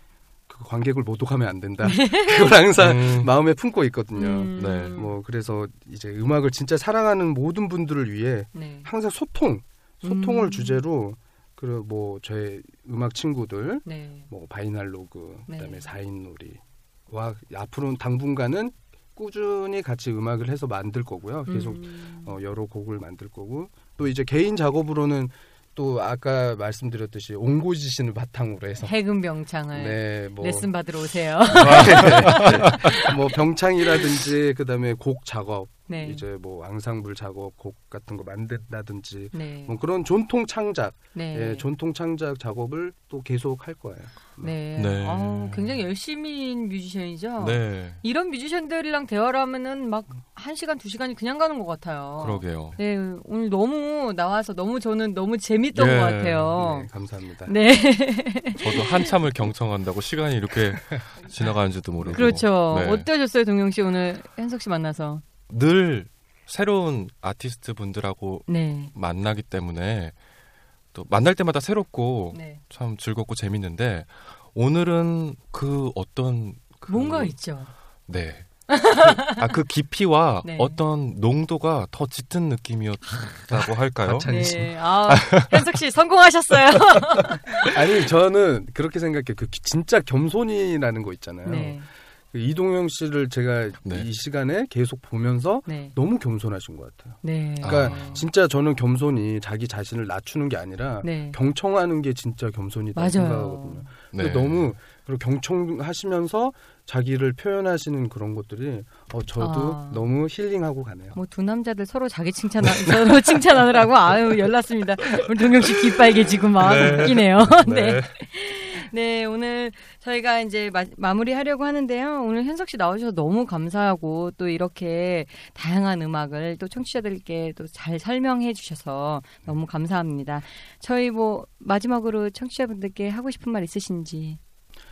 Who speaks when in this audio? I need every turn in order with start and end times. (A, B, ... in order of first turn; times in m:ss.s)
0:00.5-0:29.0 A
0:01.8-0:02.6 B
0:02.8-0:03.3 C
0:04.2-0:05.1 B
0:04.6-0:05.0 C
0:08.5-0:08.9 B
0:10.0-0:10.8 B
0:13.8-0:14.3 B
0:15.5-0:15.9 B
0:21.4-0:22.4 B
0:28.8-0:33.1 B
0:29.7-0:30.7 A
0:31.5-0:44.5 A
0:31.6-0:32.9 C
0:35.9-0:36.2 B
0:39.3-0:39.7 B
0:41.1-0:41.6 B
0:44.4-0:56.9 B
0:44.7-0:45.8 C
0:47.4-0:48.0 C
0:52.2-0:52.8 C
0:55.7-0:56.6 C
0:56.5-0:57.6 A
0:57.4-0:59.1 B
0:58.5-1:03.1 C
1:02.0-1:05.2 B
1:05.5-1:10.2 C
1:08.5-1:08.9 B
1:10.9-1:17.3 C
1:12.3-1:12.6 B
1:16.9-1:17.7 B
1:18.0-1:25.6 C
1:18.7-1:19.4 B
1:20.4-1:20.8 B
1:24.0-1:24.8 A
1:24.2-1:27.6 B
1:27.6-1:31.8 A
1:31.4-1:31.9 B
1:32.3-1:51.2 A
1:35.7-1:36.0 B
1:37.2-1:38.2 B
1:37.6-1:38.2 C
1:41.0-1:41.4 B
1:43.0-1:43.9 B
1:44.1-1:44.7 C
1:49.4-1:50.0 B
1:51.1-2:14.4 B
1:56.6-1:58.2 C